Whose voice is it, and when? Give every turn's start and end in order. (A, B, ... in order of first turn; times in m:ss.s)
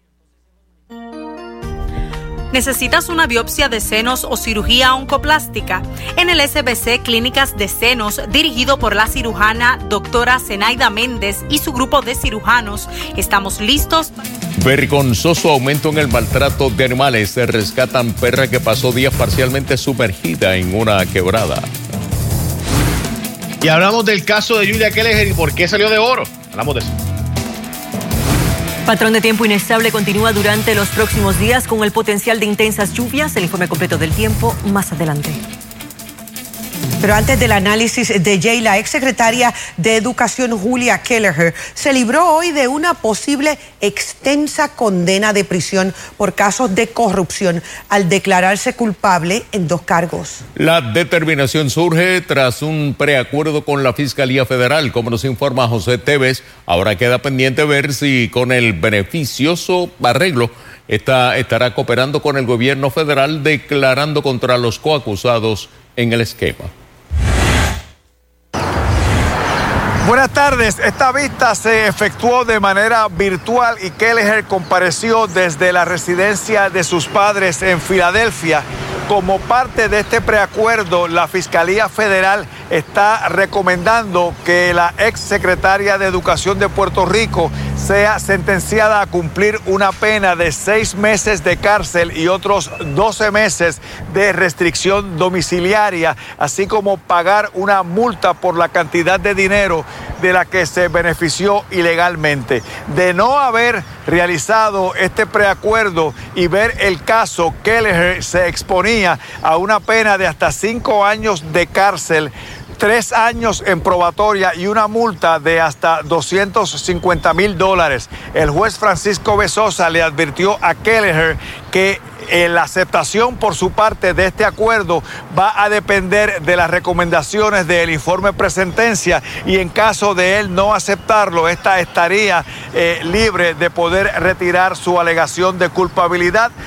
0:02.5-0:05.7 A
0:06.2-0:14.0 A
0:14.6-0:21.7 B
0:23.6-0:27.0 C
0:28.8-0:35.4 D
0:37.0-0:50.4 E
0:50.6-1:06.7 B
1:10.0-2:16.5 F